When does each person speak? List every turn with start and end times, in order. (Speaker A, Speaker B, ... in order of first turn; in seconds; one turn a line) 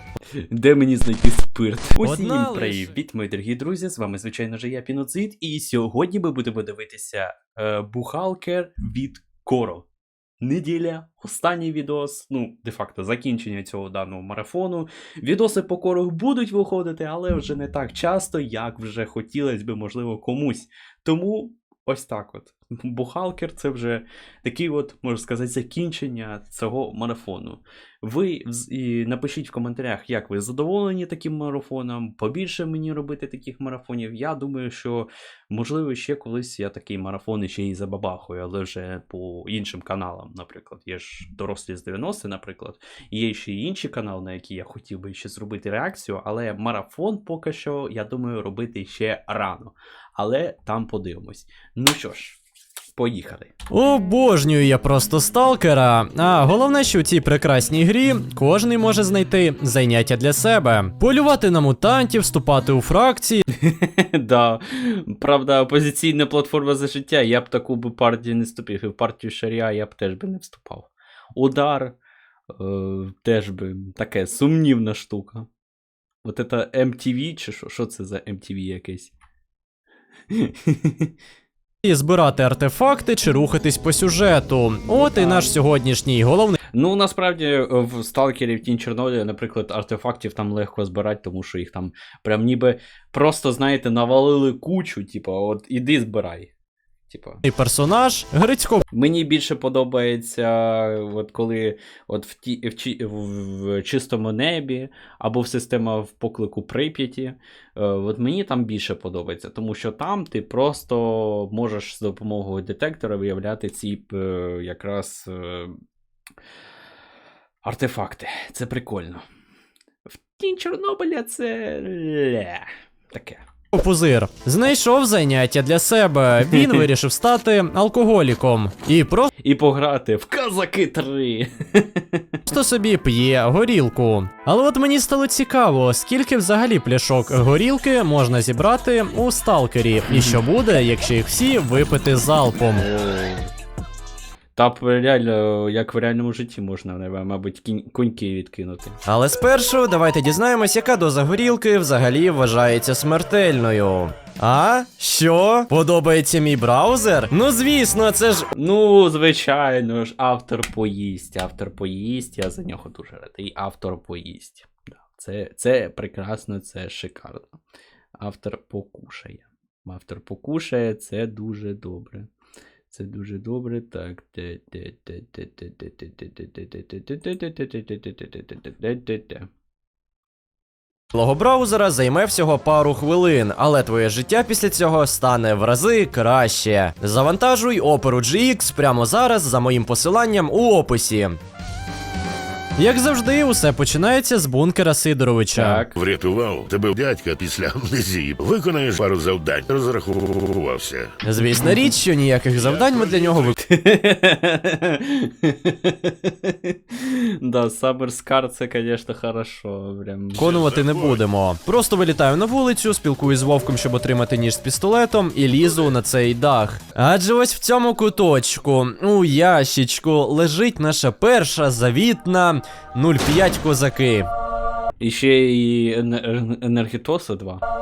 Speaker A: 0.4-9.8
Speaker B: 2.0-2.9
Speaker A: 10.4-52.4
Speaker A: 53.0-53.5
Speaker B: 53.7-63.4
Speaker A: 63.5-72.0
Speaker A: 72.5-75.5
Speaker A: 76.2-79.1
Speaker A: 80.3-81.1
Speaker B: 81.8-86.6
Speaker A: 85.1-85.5
Speaker A: 86.7-96.5
Speaker A: 97.1-97.4
Speaker B: 97.4-98.8
Speaker A: 98.9-115.7
Speaker A: 117.6-119.2
Speaker A: 120.1-123.4
Speaker B: 123.7-129.3
Speaker A: 126.4-126.8
Speaker A: 129.4-132.4
Speaker B: 132.4-142.8
Speaker A: 140.1-140.4
Speaker A: 142.8-143.5
Speaker A: 144.6-148.9
Speaker B: 149.1-158.5
Speaker A: 158.5-167.6
Speaker A: 168.2-172.3
Speaker A: 172.9-179.5
Speaker B: 181.1-191.4
Speaker B: 192.8-195.8
Speaker A: 195.5-195.9
Speaker C: 195.9-201.1
Speaker B: 201.2-203.6
Speaker C: 202.7-203.6
Speaker A: 203.6-210.6
Speaker B: 210.4-224.3
Speaker C: 210.4-211.2
Speaker A: 225.0-227.6